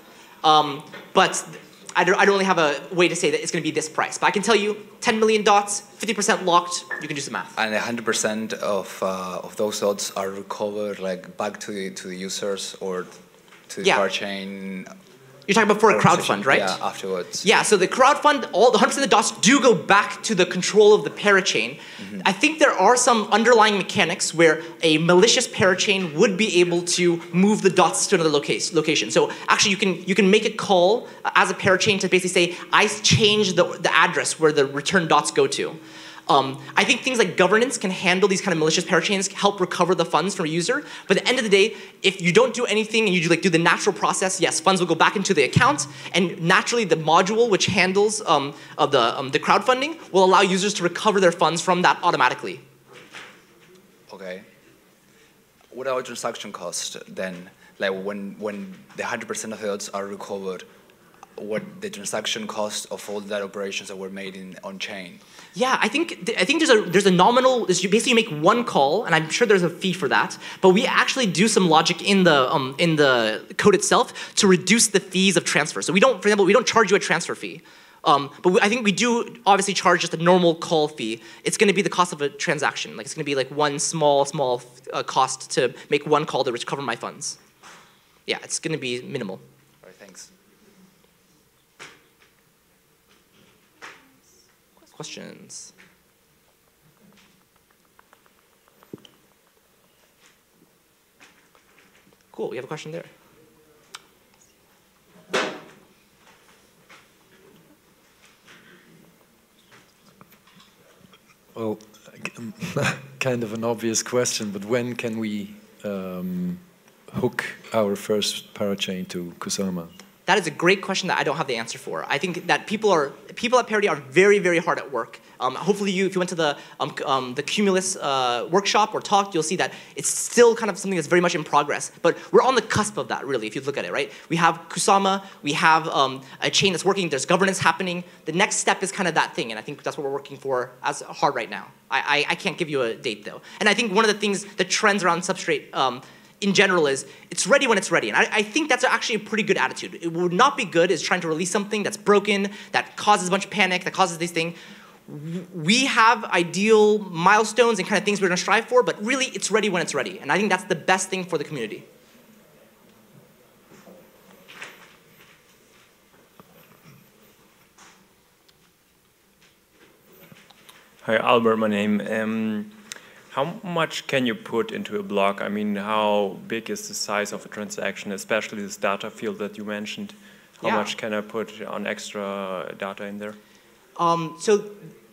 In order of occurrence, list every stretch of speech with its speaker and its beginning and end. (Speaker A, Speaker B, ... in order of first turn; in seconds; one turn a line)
Speaker A: 0.4-7.5
Speaker B: 7.5-13.1
Speaker B: 13.7-14.9
Speaker A: 15.5-16.8
Speaker B: 15.9-17.4
Speaker A: 17.4-52.6
Speaker B: 54.1-54.4
Speaker B: 55.7-60.6
Speaker B: 61.4-65.2
Speaker A: 65.5-87.4
Speaker A: 88.3-89.4
Speaker B: 89.8-90.3
Speaker A: 94.9-95.7
Speaker A: 102.3-103.1
Speaker C: 111.5-119.9
Speaker A: 120.3-154.6
Speaker A: 155.1-161.8
Speaker D: 171.0-172.7
Speaker D: 173.3-183.4
Speaker A: 180.6-180.9
Speaker A: 184.0-184.7